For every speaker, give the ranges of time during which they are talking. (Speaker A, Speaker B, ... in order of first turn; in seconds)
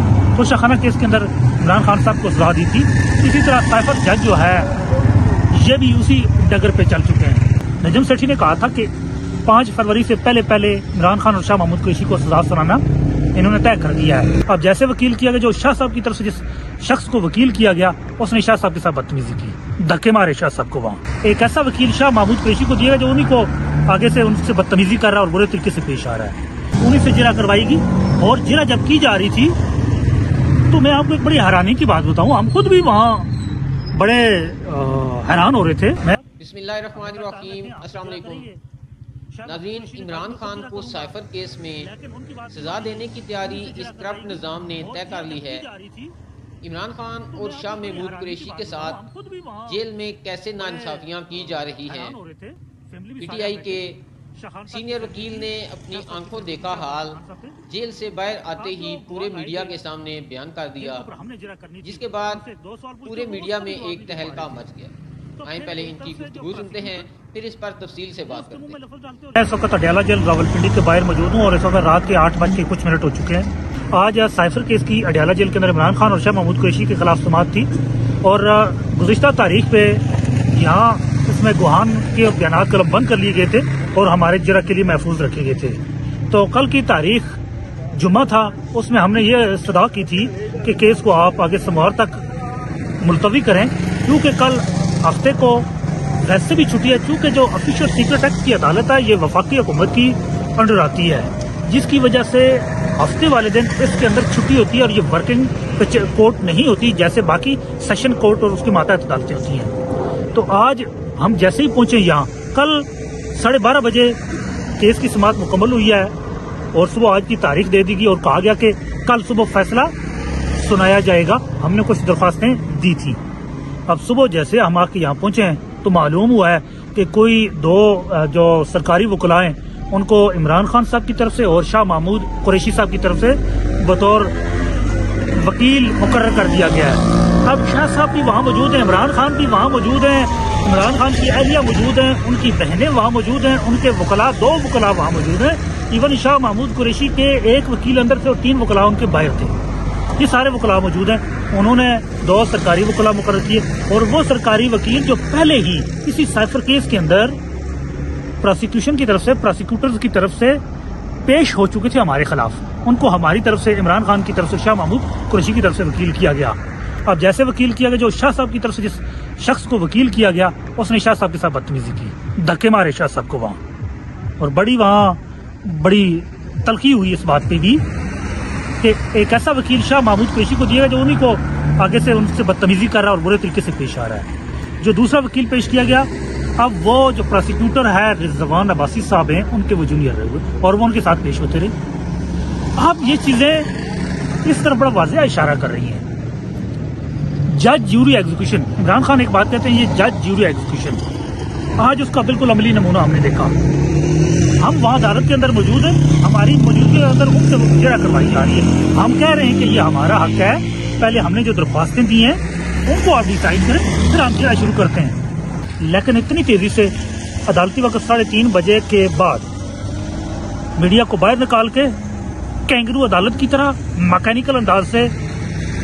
Speaker A: 0.3-4.7, 5.5-8.9, 9.4-12.8, 13.3-29.6, 30.7-33.3, 33.9-36.2, 36.9-38.6, 39.3-41.2, 41.8-46.1, 47.3-49.8, 50.6-57.6, 58.5-59.8, 60.8-64.7, 65.4-67.1, 68.2-87.4, 87.9-92.2, 93.0-95.7, 96.2-109.7, 110.3-114.2, 114.8-116.1, 116.7-119.9, 120.5-123.2, 123.9-134.3, 135.3-149.6, 150.2-157.4, 158.4-160.6, 161.2-173.6, 174.4-177.8, 178.8-191.7, 192.7-193.7, 194.4-196.0, 197.4-201.0, 201.8-203.6, 204.6-215.2, 215.8-216.9, 217.5-219.5, 220.8-222.0, 222.7-225.1
Speaker B: 36.4-38.5, 39.5-41.9, 42.5-45.6, 46.6-49.0, 49.7-52.2, 53.2-54.0, 54.7-61.1, 61.8-62.4, 63.0-68.8